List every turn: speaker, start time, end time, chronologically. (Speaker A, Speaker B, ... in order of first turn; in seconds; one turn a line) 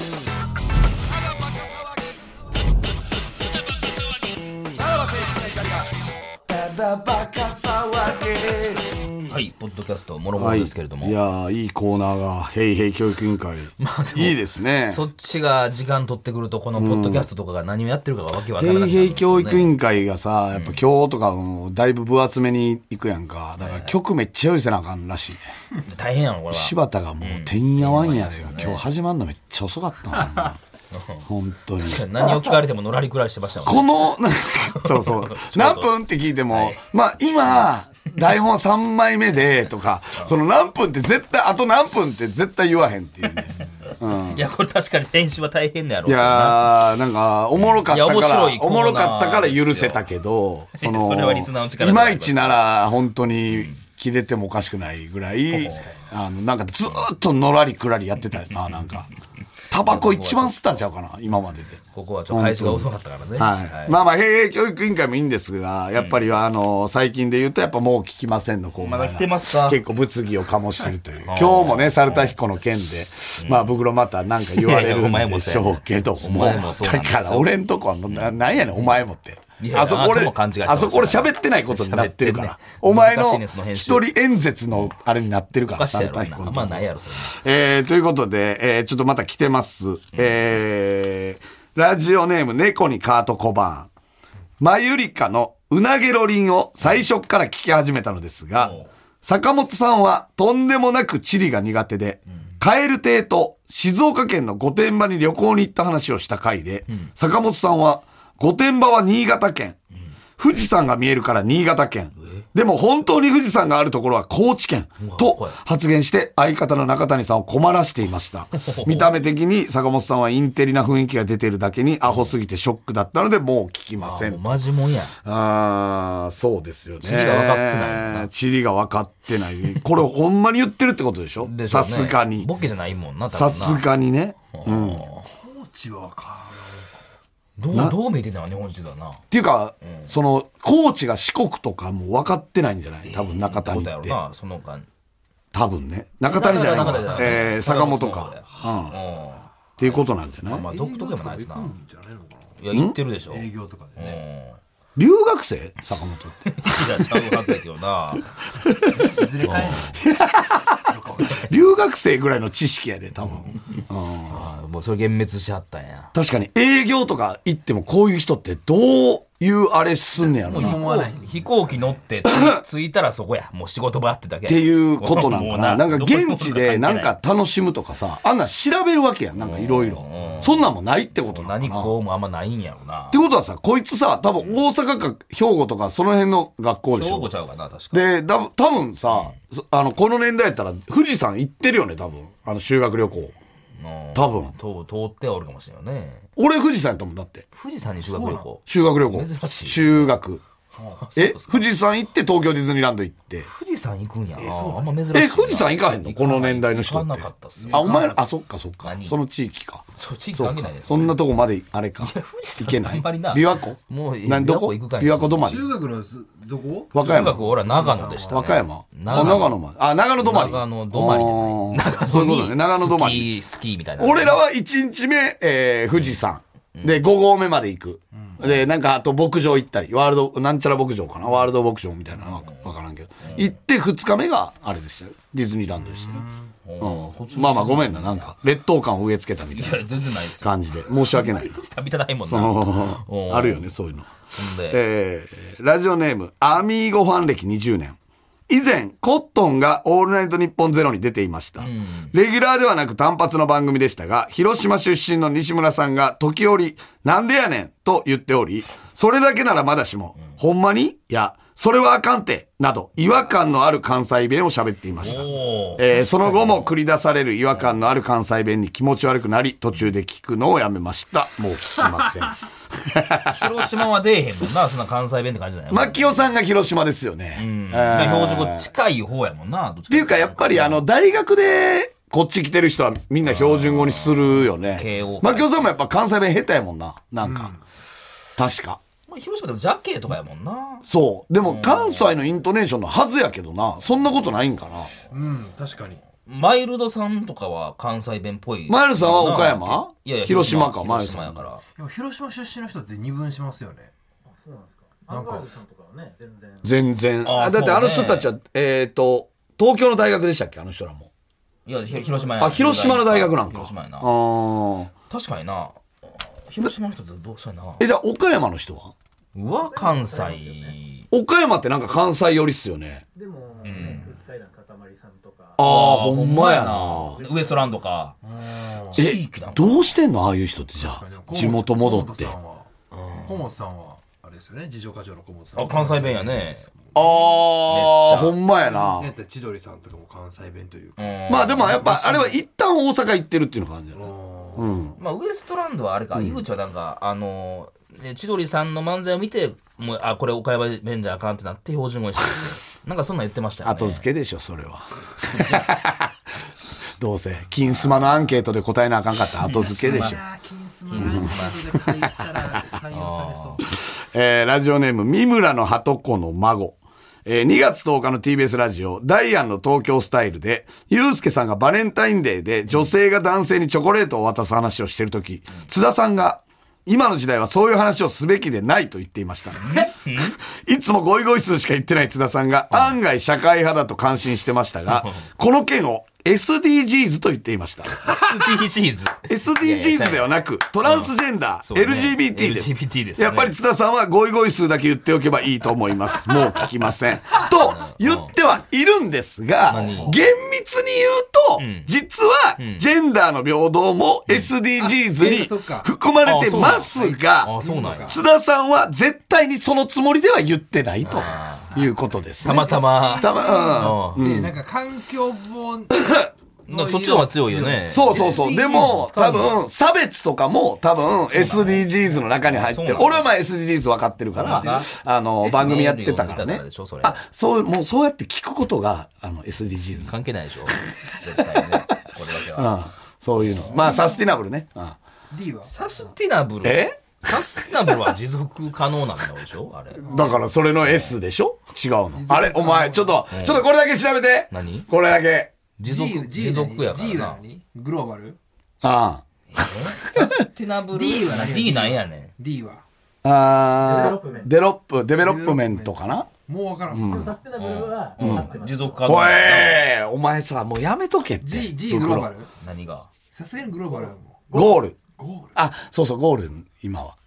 Speaker A: 4.8-5.8
Speaker A: 6.5-8.8
Speaker B: 9.3-11.2
Speaker A: 10.3-15.0
Speaker B: 13.8-19.7
Speaker A: 16.8-17.3
Speaker A: 18.5-25.4
Speaker B: 20.5-20.8
Speaker B: 23.6-23.9
Speaker B: 25.8-28.8
Speaker A: 26.5-30.6
Speaker B: 30.3-31.2
Speaker A: 31.2-32.6
Speaker B: 31.8-34.1
Speaker A: 33.6-44.4
Speaker B: 34.7-35.9
Speaker B: 36.5-36.8
Speaker B: 43.6-46.8
Speaker A: 46.0-59.1
Speaker B: 47.7-50.0
Speaker B: 50.7-52.7
Speaker B: 53.5-53.8
Speaker B: 55.5-55.9
Speaker A: 59.7-93.9
Speaker B: 59.8-60.6
Speaker B: 61.9-64.0
Speaker B: 66.0-66.2
Speaker B: 68.8-69.8
Speaker B: 71.2-72.3
Speaker B: 73.4-73.8
Speaker B: 74.5-77.5
Speaker B: 78.1-79.0
Speaker B: 79.6-84.1
Speaker B: 85.7-87.4
Speaker A: 94.6-109.8
Speaker B: 98.6-98.9
Speaker A: 110.4-124.7
Speaker B: 112.2-112.4
Speaker B: 115.0-115.6
Speaker B: 118.5-119.1
Speaker B: 124.0-125.1
Speaker A: 125.2-132.5
Speaker B: 127.0-128.3
Speaker B: 131.4-133.8
Speaker A: 133.3-135.0
Speaker B: 134.5-135.3
Speaker C: 135.2-136.9
Speaker B: 137.6-139.2
Speaker A: 137.7-138.0
Speaker A: 139.3-144.2
Speaker B: 139.8-140.1
Speaker B: 143.0-144.9
Speaker A: 145.5-149.0
Speaker B: 146.2-151.7
Speaker C: 146.3-147.4
Speaker A: 149.8-150.6
Speaker C: 150.7-152.6
Speaker B: 152.6-154.6
Speaker A: 152.7-153.0
Speaker C: 153.3-154.2
Speaker A: 154.9-157.3
Speaker B: 156.4-158.3
Speaker A: 158.6-160.8
Speaker C: 159.0-160.0
Speaker B: 159.4-159.9
Speaker C: 160.9-161.8
Speaker A: 161.4-164.5
Speaker B: 164.2-166.1
Speaker A: 166.1-170.9
Speaker B: 170.4-177.1
Speaker C: 170.4-171.6
Speaker A: 172.2-172.6
Speaker A: 174.4-181.9
Speaker B: 179.4-183.2
Speaker A: 183.1-187.3
Speaker B: 186.9-188.1
Speaker A: 187.9-193.3
Speaker B: 193.8-196.2
Speaker A: 194.1-194.5
Speaker A: 196.4-197.4
Speaker B: 197.5-200.2
Speaker C: 198.0-198.5
Speaker A: 198.7-200.4
Speaker B: 201.0-201.7
Speaker A: 201.2-203.5
Speaker B: 203.4-207.9
Speaker C: 204.3-204.9
Speaker A: 205.1-215.7
Speaker C: 207.6-208.2
Speaker B: 208.8-209.2
Speaker B: 209.9-211.2
Speaker B: 212.0-215.6
Speaker C: 215.4-218.5
Speaker A: 216.9-217.5
Speaker B: 217.0-219.6
Speaker A: 218.2-223.3
Speaker C: 219.1-219.4
Speaker B: 220.2-224.4
Speaker A: 224.0-236.3
Speaker B: 225.9-226.2
Speaker B: 226.7-227.0
Speaker B: 232.4-232.7
Speaker B: 233.2-233.5
Speaker C: 236.0-236.3
Speaker B: 236.6-238.3
Speaker A: 236.8-241.6
Speaker B: 239.5-243.7
Speaker A: 242.2-248.0
Speaker B: 244.3-244.8
Speaker A: 248.5-273.7
Speaker B: 251.6-252.1
Speaker B: 265.0-266.7
Speaker B: 273.3-276.2
Speaker A: 275.7-278.7
Speaker B: 277.3-280.9
Speaker A: 279.9-287.5
Speaker B: 283.2-285.7
Speaker C: 287.2-287.6
Speaker A: 288.4-288.8
Speaker B: 289.1-290.9
Speaker A: 290.8-294.9
Speaker B: 291.4-292.2
Speaker C: 295.1-296.0
Speaker B: 296.2-301.6
Speaker A: 298.7-301.4
Speaker C: 301.8-303.9
Speaker D: 304.3-306.7
Speaker C: 305.1-305.5
Speaker A: 306.6-311.1
Speaker B: 307.2-308.3
Speaker B: 311.6-314.1
Speaker A: 312.4-314.9
Speaker B: 315.1-317.8
Speaker A: 317.8-318.9
Speaker B: 319.3-321.1
Speaker D: 319.7-320.7
Speaker A: 321.1-323.0
Speaker D: 323.1-325.6
Speaker C: 323.6-324.1
Speaker B: 323.6-324.1
Speaker A: 325.6-327.2
Speaker B: 325.6-328.2
Speaker D: 327.2-327.6
Speaker C: 328.2-329.0
Speaker B: 328.9-330.0
Speaker A: 328.9-332.3
Speaker C: 330.8-337.1
Speaker B: 332.9-333.3
Speaker B: 335.6-338.4
Speaker A: 336.9-339.1
Speaker C: 338.5-342.4
Speaker B: 341.0-341.9
Speaker A: 341.3-345.0
Speaker C: 343.9-344.8
Speaker B: 345.0-354.1
Speaker A: 346.1-346.4
Speaker A: 353.6-356.1
Speaker B: 355.3-355.7
Speaker A: 357.0-360.2
Speaker B: 357.7-358.0
Speaker B: 359.4-360.2
Speaker C: 359.5-363.6
Speaker B: 360.9-361.6
Speaker A: 361.0-361.3
Speaker B: 362.9-363.6
Speaker A: 363.6-388.5
Speaker B: 379.6-380.3
Speaker B: 382.7-383.0
Speaker B: 384.9-385.2
Speaker B: 388.0-390.3
Speaker A: 389.3-414.6
Speaker B: 390.8-391.1
Speaker B: 391.6-393.5
Speaker B: 397.6-398.3
Speaker B: 399.7-400.2
Speaker C: 399.7-400.2
Speaker B: 401.6-401.9
Speaker B: 402.6-402.8
Speaker C: 404.8-405.9
Speaker B: 406.2-408.2
Speaker C: 406.5-408.2
Speaker B: 411.1-411.7
Speaker B: 412.4-414.3
Speaker C: 412.5-419.0
Speaker B: 416.7-419.6
Speaker A: 417.9-430.1
Speaker B: 421.3-423.3
Speaker B: 424.3-424.9
Speaker C: 424.4-424.8
Speaker B: 425.4-427.2
Speaker B: 430.0-432.8
Speaker A: 432.5-435.0
Speaker C: 435.3-435.7
Speaker B: 435.7-440.2
Speaker A: 436.6-438.1
Speaker A: 440.0-445.5
Speaker C: 440.1-440.4
Speaker B: 440.8-441.1
Speaker C: 442.1-443.3
Speaker B: 443.3-443.6
Speaker B: 444.5-444.9
Speaker B: 445.8-447.4
Speaker C: 445.8-448.4
Speaker A: 448.8-449.2
Speaker B: 449.5-452.3
Speaker C: 450.9-452.8
Speaker A: 453.2-456.3
Speaker D: 453.8-454.5
Speaker C: 455.2-457.4
Speaker A: 456.9-457.4
Speaker D: 457.1-459.2
Speaker B: 457.5-459.8
Speaker A: 458.2-462.3
Speaker C: 461.4-462.5
Speaker B: 462.6-463.1
Speaker C: 463.3-464.5
Speaker D: 464.5-465.0
Speaker A: 464.5-465.0
Speaker C: 465.2-465.6
Speaker A: 465.6-467.1